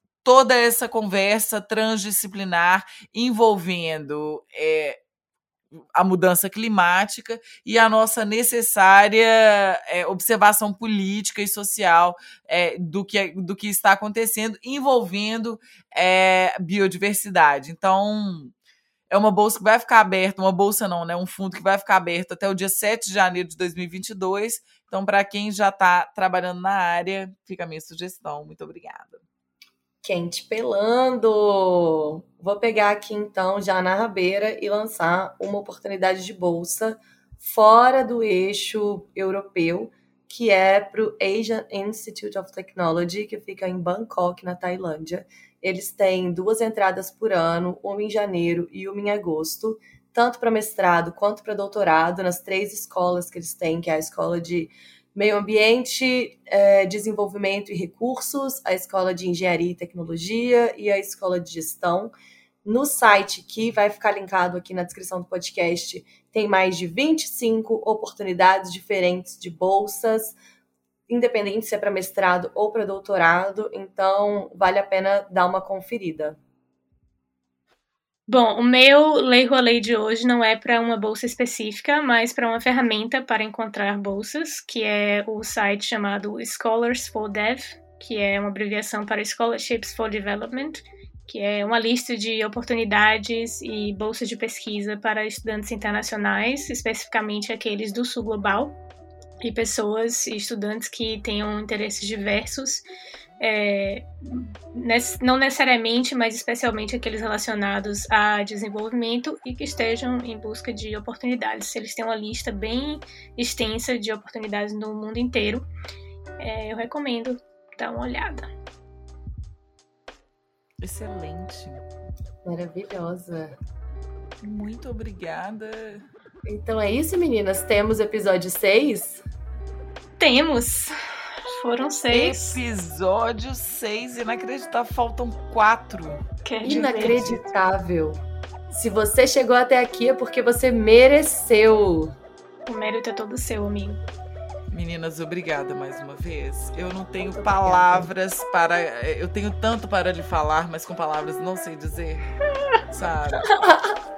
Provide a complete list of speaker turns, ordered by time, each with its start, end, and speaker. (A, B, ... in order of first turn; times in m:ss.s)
0:00.2-0:05.0 A
0:05.9-0:18.5 A
0:19.1-0:29.2 A
0:30.0-1:02.1 B
1:02.6-1:10.4 B
1:11.1-1:16.4 B
1:18.3-1:38.8 C
1:39.4-1:42.8 C
1:43.4-1:55.7 C
1:56.4-1:58.5 C
2:00.8-2:01.8 A
2:02.4-2:03.6 B
2:04.4-2:06.0 A
2:06.4-2:09.2 B
2:10.2-2:10.9 C
2:11.5-2:12.6 C
2:12.1-2:17.4 A
2:16.4-2:17.1 C
2:16.6-2:22.1 B
2:22.6-2:24.0 C
2:24.7-2:32.3 A
2:27.2-2:28.1 B
2:32.9-2:33.5 A
2:33.6-2:33.9 B